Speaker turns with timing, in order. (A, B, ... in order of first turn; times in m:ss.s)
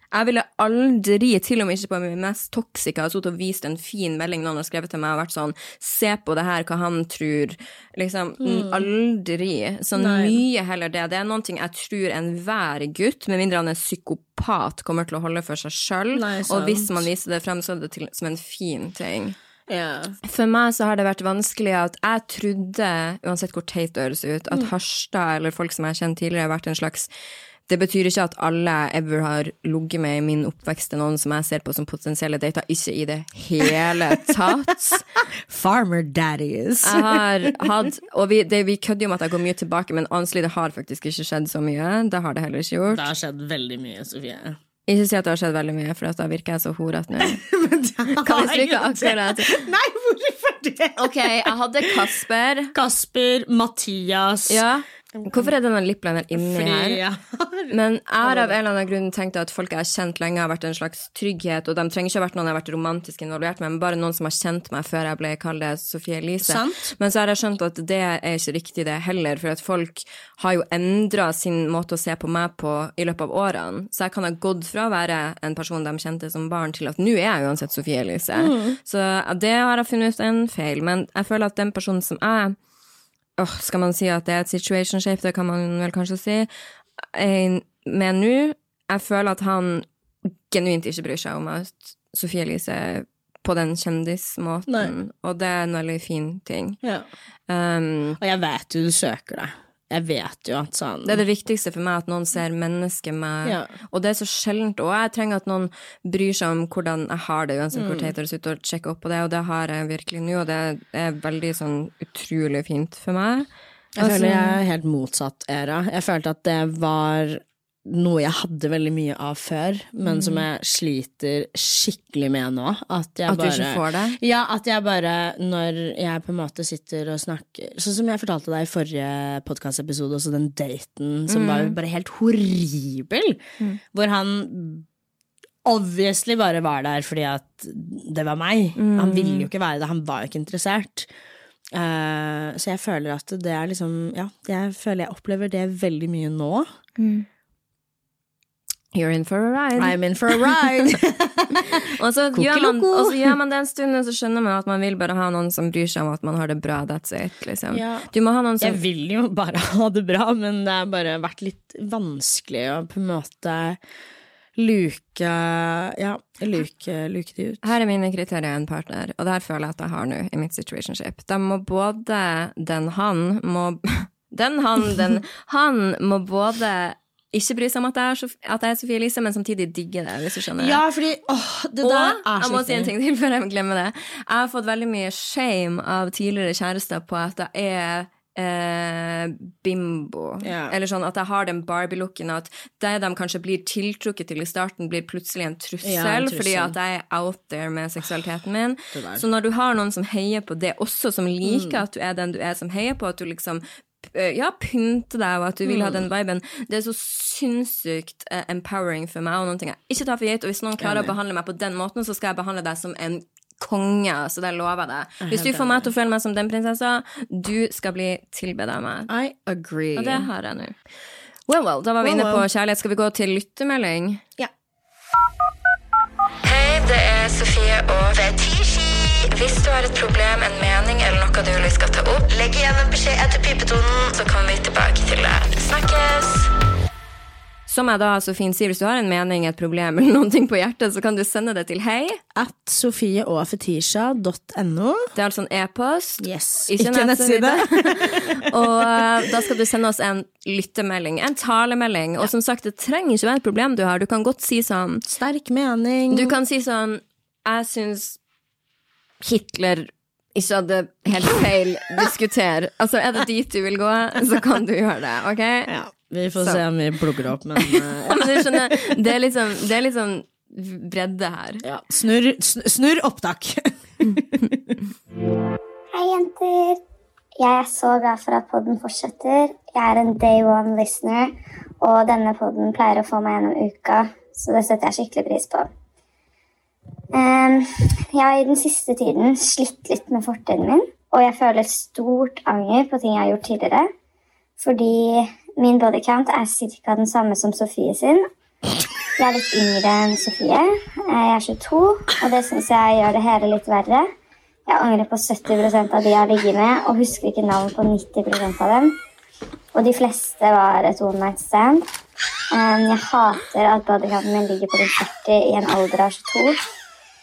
0:00.1-0:19.4 A
0:08.4-0:08.8 B
0:10.0-0:10.4 B
0:16.1-0:17.1 B
0:19.7-0:20.2 B
0:20.2-0:27.1 A
0:27.7-0:35.0 A
0:34.9-0:37.7 B
0:36.8-0:43.1 A
0:42.9-0:44.6 B
0:44.9-0:47.4 A
0:47.2-0:52.0 B
0:48.2-0:49.6 A
0:51.0-0:52.7 A
0:52.7-0:55.5 B
0:54.5-0:57.0 A
0:56.3-0:58.6 B
0:57.7-1:22.6 A
1:06.4-1:06.9 B
1:18.4-1:18.8 B
1:23.4-1:26.5 A
1:27.1-1:36.8 A
1:34.7-1:34.9 B
1:37.5-1:38.2 A
1:38.2-1:41.2 B
1:41.1-1:53.5 A
1:43.4-1:43.7 B
1:47.7-1:48.1 B
1:54.0-2:13.4 B
1:54.0-1:54.6 A
2:00.0-2:00.4 A
2:03.3-2:04.2 A
2:11.3-2:11.8 A
2:13.9-2:14.9 B
2:15.6-2:21.1 B
2:18.8-2:19.5 A
2:21.7-2:26.7 B
2:27.0-2:27.3 A
2:28.9-2:31.0 A
2:29.8-2:33.4 B
2:31.5-2:38.8 A
2:37.7-2:38.1 B
2:38.6-2:43.8 B
2:44.6-2:47.6 B
2:47.6-3:00.8 A
3:00.6-3:02.9 B
3:01.8-3:39.1 A
3:10.4-3:10.7 B
3:15.8-3:16.7 B
3:18.9-3:19.2 B
3:21.4-3:21.8 B
3:25.6-3:26.0 B
3:30.8-3:31.1 B
3:35.2-3:35.9 B
3:39.1-3:40.3 B
3:40.0-3:40.8 A
3:41.5-3:44.2 A
3:42.0-3:42.4 B
3:46.4-3:56.5 C
3:57.7-4:02.2 A
4:02.4-4:05.1 B
4:05.2-4:15.1 A
4:06.2-4:09.0 B
4:15.1-4:16.4 B
4:16.1-4:18.2 A
4:19.2-4:25.7 A
4:25.7-4:29.0 B
4:27.6-4:31.6 A
4:31.6-4:34.8 B
4:35.9-4:36.8 D
4:37.4-4:45.7 D
4:47.1-4:53.9 D
4:54.6-4:58.2 D
4:59.2-5:04.1 D
5:04.7-5:08.9 D
5:09.8-5:11.9 D
5:12.5-5:16.6 D